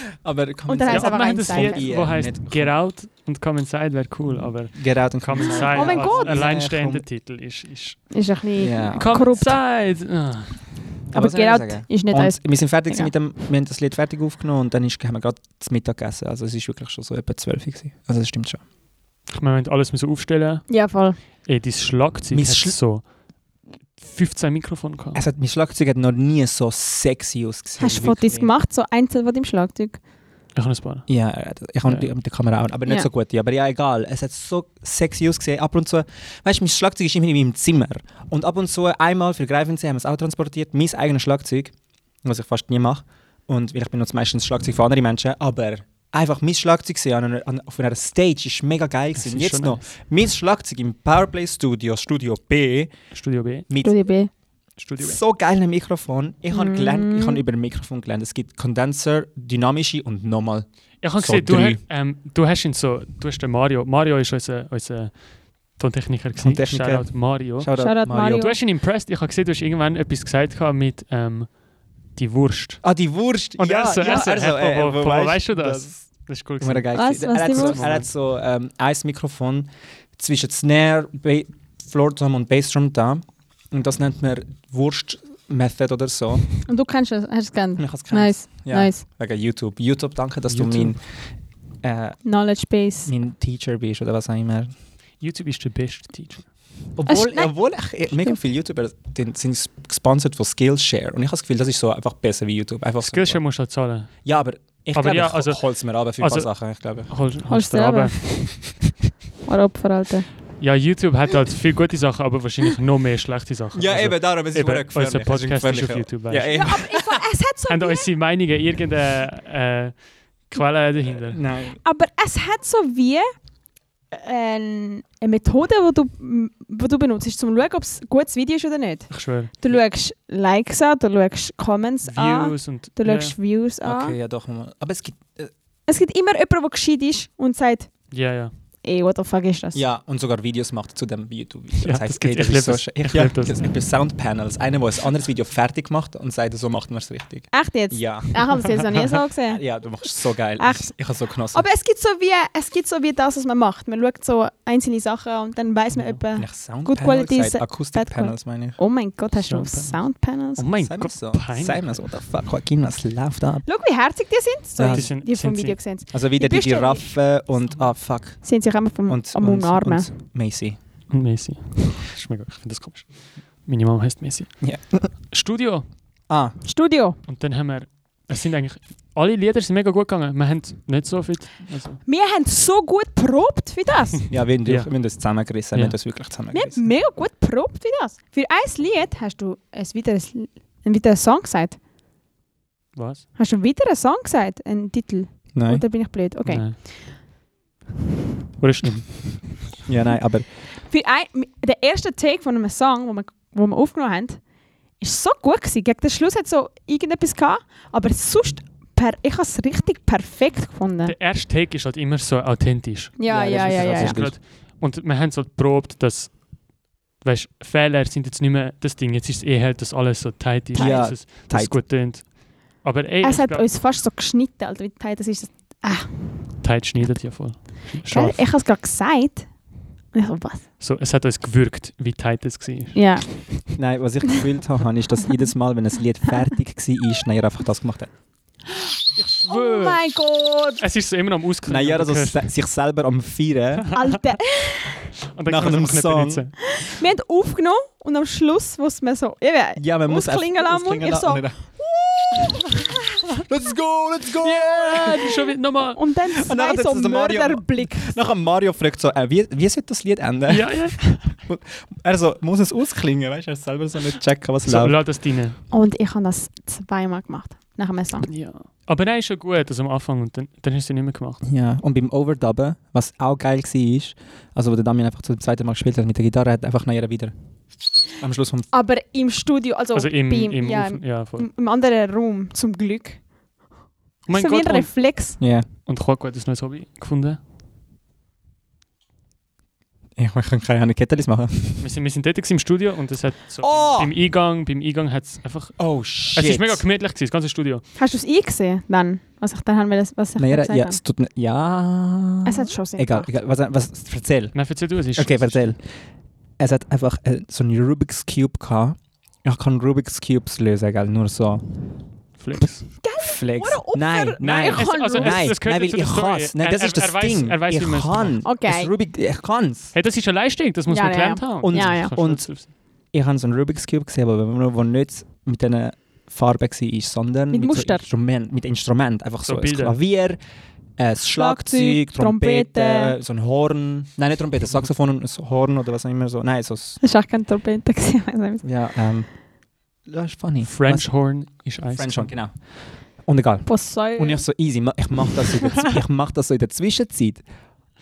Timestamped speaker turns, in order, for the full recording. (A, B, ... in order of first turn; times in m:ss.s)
0:00.2-0:02.7 A
0:00.7-0:01.9 B
0:00.9-0:08.1 C
0:04.3-0:07.0 A
0:05.5-0:06.4 B
0:08.1-0:09.6 B
0:08.6-0:09.2 A
0:08.9-0:11.2 C
0:11.1-0:18.6 A
0:11.1-0:13.1 B
0:19.3-0:23.1 C
0:20.7-0:21.2 B
0:22.3-0:22.8 A
0:24.0-0:25.2 C
0:25.2-0:28.5 A
0:27.8-0:30.0 B
0:30.6-0:31.1 C
0:31.1-0:41.7 A
0:42.2-0:52.9 A
0:49.2-0:49.8 C
0:53.1-0:53.7 C
0:53.7-0:53.9 A
0:53.8-0:54.3 B
0:54.8-0:55.2 C
0:55.0-1:01.8 A
0:56.5-0:57.4 B
1:01.0-1:11.6 C
1:06.4-1:08.5 A
1:07.8-1:08.6 B
1:12.1-1:12.8 C
1:12.8-1:16.0 A
1:13.6-1:18.1 C
1:16.6-1:26.5 A
1:16.9-1:17.8 B
1:26.6-1:29.0 B
1:27.8-1:31.0 A
1:30.5-1:30.9 C
1:31.8-1:32.2 A
1:32.2-1:33.1 B
1:33.1-1:34.7 A
1:35.2-1:36.5 C
1:37.0-1:43.4 A
1:37.1-1:37.5 B
1:43.0-1:44.1 C
1:44.2-1:47.1 A
1:45.0-1:45.6 C
1:46.2-1:46.5 C
1:47.1-1:48.7 C
1:47.5-1:48.6 B
1:49.4-1:50.3 B
1:50.6-1:56.6 C
1:53.7-1:57.2 A
1:56.5-1:58.1 B
1:57.7-2:01.4 C
2:01.3-2:01.8 A
2:01.8-2:03.3 B
2:04.1-2:14.2 B
2:09.1-2:09.7 C
2:12.0-2:13.4 C
2:13.8-2:15.5 A
2:15.9-2:18.1 B
2:18.1-2:18.5 C
2:18.8-2:19.8 B
2:19.7-2:28.9 A
2:21.8-2:23.7 C
2:27.5-2:29.6 B
2:29.5-2:31.6 A
2:30.6-2:31.0 B
2:31.5-2:40.6 B
2:36.4-2:38.8 A
2:39.4-2:40.0 C
2:40.6-2:41.9 C
2:40.8-2:43.7 A
2:43.6-2:47.1 B
2:44.8-2:45.1 A
2:44.9-2:45.8 C
2:46.1-2:48.5 A
2:48.4-2:50.1 B
2:49.1-2:50.8 A
2:51.1-2:55.9 C
2:54.6-2:55.1 A
2:56.3-2:56.6 A
2:56.6-2:57.2 B
2:57.3-3:02.0 C
3:02.1-3:04.2 B
3:04.3-3:06.9 A
3:04.6-3:04.9 C
3:06.5-3:11.8 B
3:12.9-3:13.2 C
3:13.4-3:16.9 B
3:15.5-3:15.8 A
3:16.5-3:16.8 C
3:18.6-3:19.6 C
3:19.8-3:20.5 A
3:20.9-3:24.4 B
3:25.0-3:31.2 B
3:31.0-3:36.4 C
3:33.2-3:34.2 B
3:33.3-3:34.4 A
3:37.2-3:43.7 C
3:40.7-3:41.1 B
3:40.7-3:41.8 A
3:43.2-3:46.1 B
3:46.6-3:48.4 C
3:48.0-3:49.5 B
3:50.1-3:50.6 B
3:50.8-3:53.1 C
3:52.9-3:53.8 B
3:53.8-3:58.1 A
3:59.2-4:00.0 C
3:59.5-4:00.8 B
4:00.8-4:02.5 C
4:01.7-4:03.9 A
4:03.9-4:05.0 B
4:05.3-4:06.6 C
4:05.5-4:06.4 A
4:06.7-4:13.3 B
4:09.8-4:12.8 A
4:13.4-4:15.4 A
4:14.4-4:16.0 C
4:15.9-4:18.2 B
4:16.3-4:25.0 A
4:20.5-4:21.3 C
4:24.6-4:25.6 C
4:25.7-4:28.3 B
4:28.2-4:31.4 C
4:31.4-4:37.3 A
4:38.2-4:38.7 A
4:38.7-4:43.2 B
4:40.0-4:41.5 C
4:44.3-4:44.9 C
4:44.3-4:45.4 B
4:45.4-4:45.7 A
4:45.8-4:47.4 C
4:50.2-4:51.9 A
4:51.8-4:57.8 C
4:53.6-4:54.1 A
4:55.8-4:56.8 A
4:58.0-5:01.0 B
5:00.4-5:04.6 A
5:02.4-5:03.3 B
5:04.5-5:05.7 C
5:05.2-5:05.8 A
5:06.6-5:11.6 A
5:12.4-5:12.9 C
5:13.0-5:15.5 B
5:13.2-5:19.9 A
5:14.4-5:18.4 C
5:18.4-5:18.9 B
5:19.9-5:22.7 C
5:20.9-5:22.1 B
5:21.6-5:22.5 A
5:23.1-5:30.4 A
5:27.5-5:28.0 B
5:29.5-5:30.0 C
5:31.0-5:37.0 A
5:31.3-5:33.2 B
5:37.0-5:38.6 B
5:38.6-5:39.3 A
5:40.1-5:41.2 A
5:40.6-5:42.3 C
5:41.9-5:42.6 A
5:43.2-5:47.4 A
5:43.7-5:44.4 B